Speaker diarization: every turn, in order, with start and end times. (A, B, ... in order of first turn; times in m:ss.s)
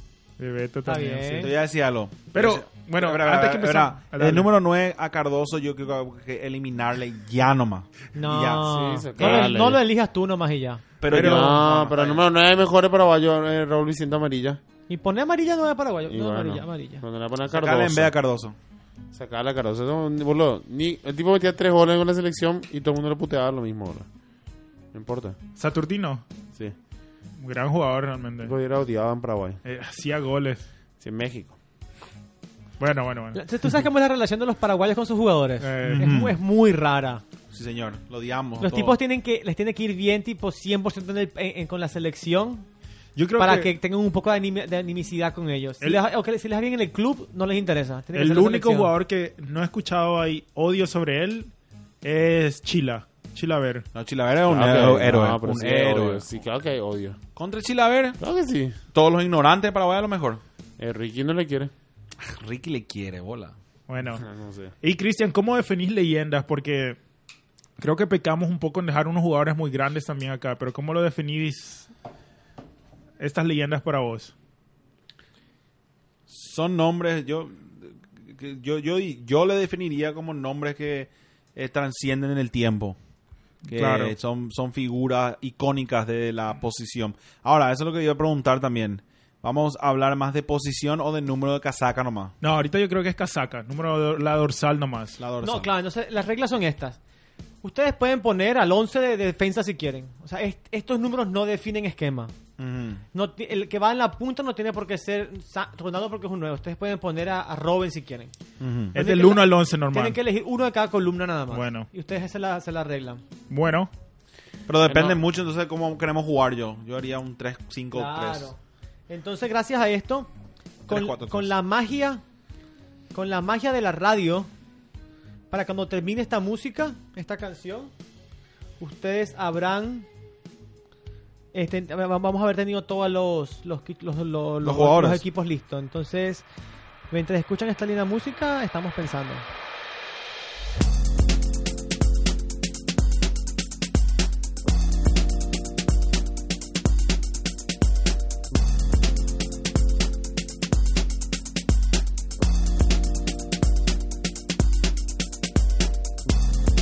0:00.4-0:01.5 A
0:00.8-0:01.5 B
0:01.3-0:08.6 C
0:02.3-0:04.5 A
0:08.1-0:10.8 B
0:08.6-0:09.8 D
0:11.0-0:12.2 C
0:11.1-0:11.7 A
0:11.1-0:14.6 D
0:14.9-0:17.0 B
0:16.1-0:18.1 D
0:17.5-0:18.6 C
0:19.1-0:24.1 D
0:24.9-0:25.4 D
0:25.6-0:26.2 A
0:27.4-0:28.5 A
0:28.4-0:29.6 D
0:29.6-0:30.7 A
0:31.0-0:31.5 D
0:32.8-0:33.4 A
0:33.3-0:37.2 B
0:35.6-0:36.1 A
0:35.9-0:36.4 C
0:37.5-0:39.0 C
0:38.6-0:42.7 B
0:43.2-0:43.7 A
0:43.4-0:48.9 B
0:48.1-0:51.5 A
0:52.0-0:53.8 A
0:53.9-0:56.3 C
0:54.4-0:57.2 D
0:57.4-0:58.2 C
0:58.2-0:58.8 D
0:58.9-1:00.4 C
1:00.8-1:01.7 D
1:02.2-1:03.6 C
1:03.9-1:04.2 A
1:04.2-1:04.7 D
1:04.8-1:07.0 A
1:07.8-1:11.9 A
1:13.2-1:14.3 A
1:16.3-1:23.0 C
1:23.7-1:24.1 A
1:23.7-1:32.3 C
1:32.4-1:35.2 A
1:35.2-1:35.7 C
1:35.4-1:37.0 B
1:37.6-1:42.3 B
1:42.6-1:43.0 C
1:43.1-1:48.3 B
1:48.6-1:48.9 C
1:48.9-1:50.2 A
1:48.9-1:53.2 B
1:51.5-1:51.9 A
1:53.5-1:53.9 A
1:54.7-1:58.5 C
1:57.9-1:58.6 B
1:59.1-2:00.3 B
2:00.9-2:02.2 B
2:00.9-2:01.5 C
2:03.1-2:04.5 B
2:05.5-2:07.9 B
2:08.8-2:10.1 B
2:11.5-2:16.4 B
2:14.6-2:15.2 C
2:17.1-2:19.4 B